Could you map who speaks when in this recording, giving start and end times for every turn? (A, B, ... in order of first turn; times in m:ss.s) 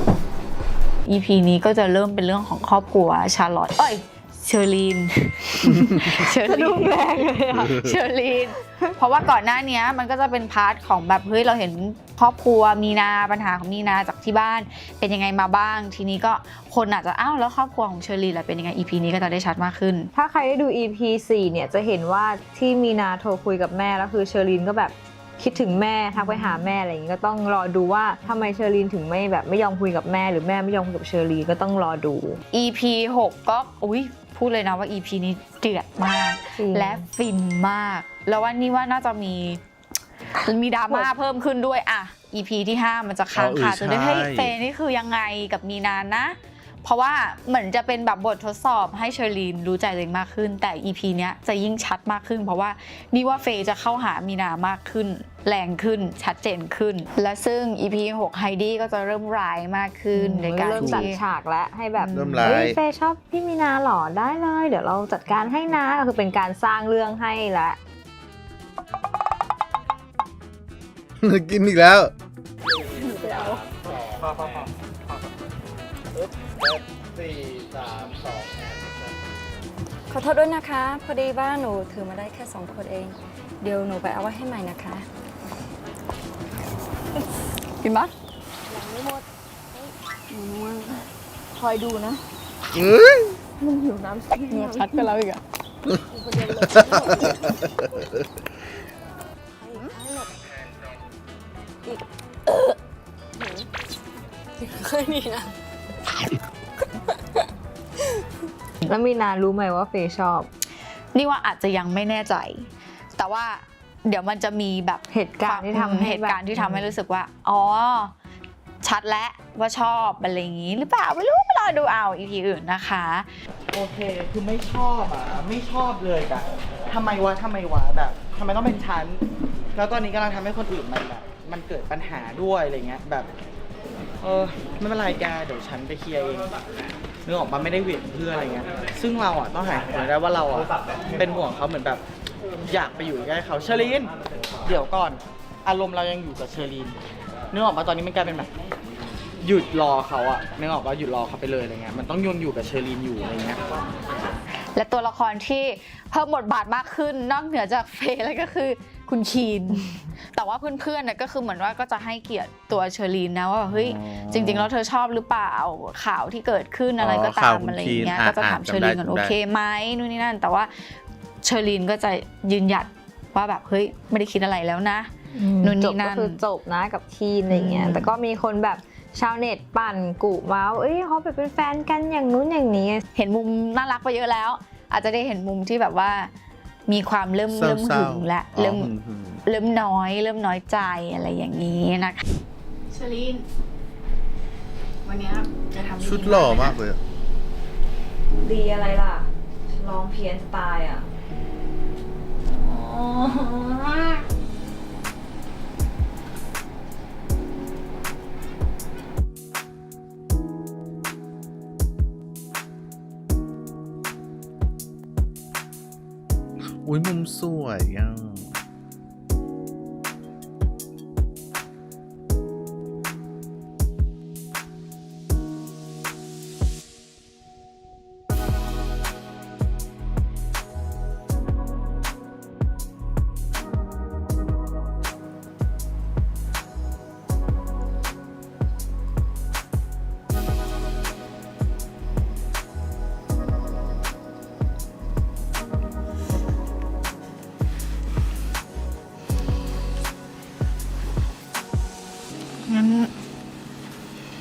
0:01.1-0:20.1 A
0:06.4-0:08.0 B
0:08.5-0:08.9 B
0:20.1-0:32.4 B
0:32.5-0:39.6 A
0:36.6-0:37.0 B
0:40.4-1:01.2 A
0:43.3-0:44.5 C
1:00.1-1:07.8 B
1:00.8-1:01.1 C
1:02.1-1:02.8 C
1:11.2-1:12.1 C
1:14.2-1:14.7 D
1:20.1-1:25.1 E
1:27.8-1:28.1 A
1:30.3-1:31.0 A
1:32.7-1:33.4 C
1:34.5-1:35.4 A
1:36.2-1:37.2 E
1:36.5-1:37.3 C
1:39.6-1:40.3 E
1:44.9-1:45.4 E
1:48.8-1:50.5 B
1:51.1-1:58.1 A
1:55.1-1:57.0 B
1:58.8-2:03.3 A
2:03.7-2:09.2 D
2:09.8-2:13.3 D
2:14.2-2:16.5 D
2:17.2-2:22.0 D
2:22.6-2:27.0 D
2:27.5-2:28.5 D
2:29.4-2:33.6 D
2:34.8-2:56.4 A
2:43.7-2:44.7 C
2:47.0-2:49.4 C
2:55.4-3:03.0 B
3:03.2-3:06.3 A
3:06.9-3:08.9 A
3:07.5-3:09.4 C
3:09.5-3:12.2 A
3:12.9-3:13.4 A
3:15.0-3:16.8 A
3:16.0-3:17.0 C
3:18.4-3:21.1 B
3:22.6-3:24.2 B
3:36.8-3:38.5 C
4:12.7-4:13.1 A